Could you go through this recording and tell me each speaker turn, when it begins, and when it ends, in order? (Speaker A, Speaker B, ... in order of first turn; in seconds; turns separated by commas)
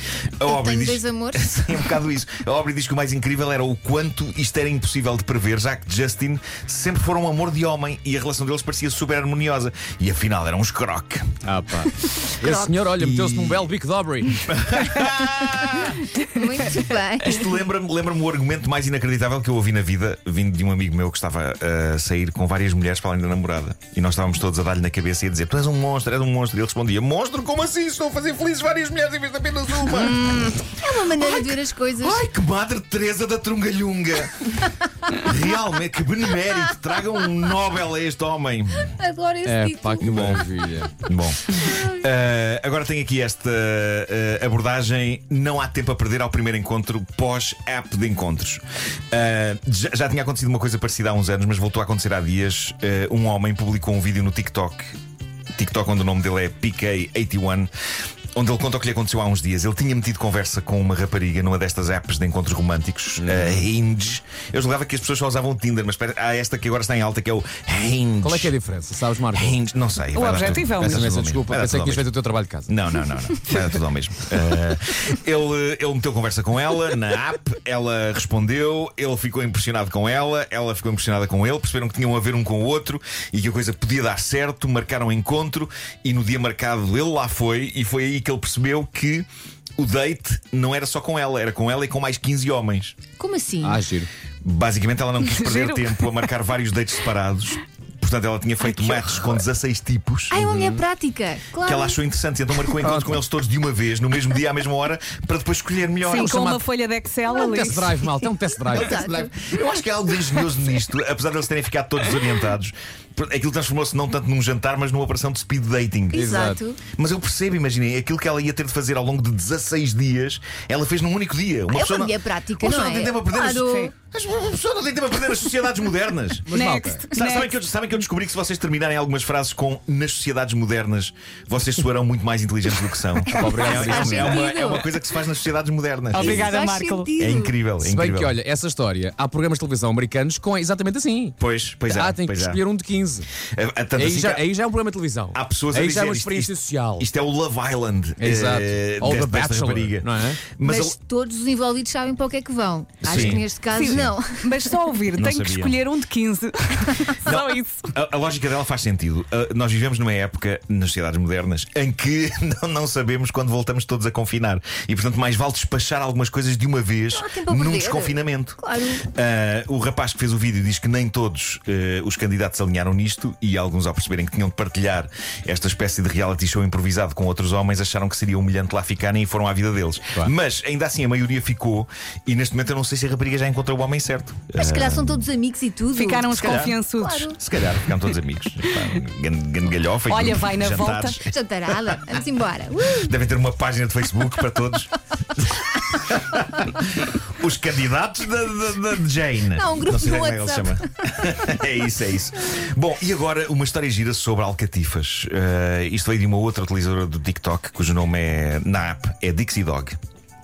Speaker A: 0.4-11.3, Speaker B: 0.4-1.7, Speaker C: 11.4-14.5, Speaker B: 12.4-12.7, Speaker A: 12.9-13.6, Speaker A: 14.5-16.1, Speaker B: 16.2-17.4, Speaker A: 17.2-30.6, Speaker B: 30.0-32.2, Speaker A: 31.2-38.9, Speaker B: 38.9-40.5, Speaker C: 39.4-41.0, Speaker A: 40.0-40.5, Speaker A: 41.0-55.0, Speaker B: 41.6-41.9, Speaker A: 55.5-57.7, Speaker A: 58.4-68.5, Speaker C: 63.2-63.7, Speaker C: 68.2-69.6, Speaker A: 69.3-72.0, Speaker D: 70.1-71.1, Speaker C: 70.4-72.7, Speaker A: 72.7-89.2, Speaker A: 89.8-93.0, Speaker B: 93.2-93.8, Speaker C: 93.6-94.1, Speaker A: 94.4-100.4, Speaker D: 95.2-96.0, Speaker B: 100.3-102.0, Speaker C: 100.3-100.8, Speaker A: 101.6-106.6, Speaker C: 102.7-103.2, Speaker D: 106.0-108.0, Speaker C: 107.3-109.4, Speaker B: 108.7-109.6, Speaker A: 108.7-126.5, Speaker C: 116.1-116.6, Speaker B: 116.1-116.8, Speaker B: 121.7-123.9, Speaker D: 123.6-123.9, Speaker C: 126.5-127.0, Speaker D: 126.5-127.6, Speaker A: 127.1-136.5, Speaker C: 133.3-134.8, Speaker B: 133.4-134.8, Speaker D: 136.1-137.1, Speaker B: 136.1-137.6, Speaker A: 137.2-138.3, Speaker C: 137.8-143.3, Speaker A: 141.4-142.6, Speaker A: 143.5-144.4, Speaker C: 143.9-147.1, Speaker A: 145.3-150.9, Speaker C: 148.2-150.5, Speaker B: 150.6-154.6, Speaker A: 153.0-154.1, Speaker C: 153.1-153.4, Speaker D: 153.7-157.9, Speaker A: 155.2-155.8, Speaker A: 157.2-185.2, Speaker B: 167.1-169.0, Speaker B: 184.6-187.4, Speaker D: 185.9-187.3, Speaker A: 186.3-186.8, Speaker A: 187.3-191.3, Speaker D: 190.1-191.2, Speaker B: 191.2-193.1, Speaker A: 192.9-210.0, Speaker B: 199.5-200.8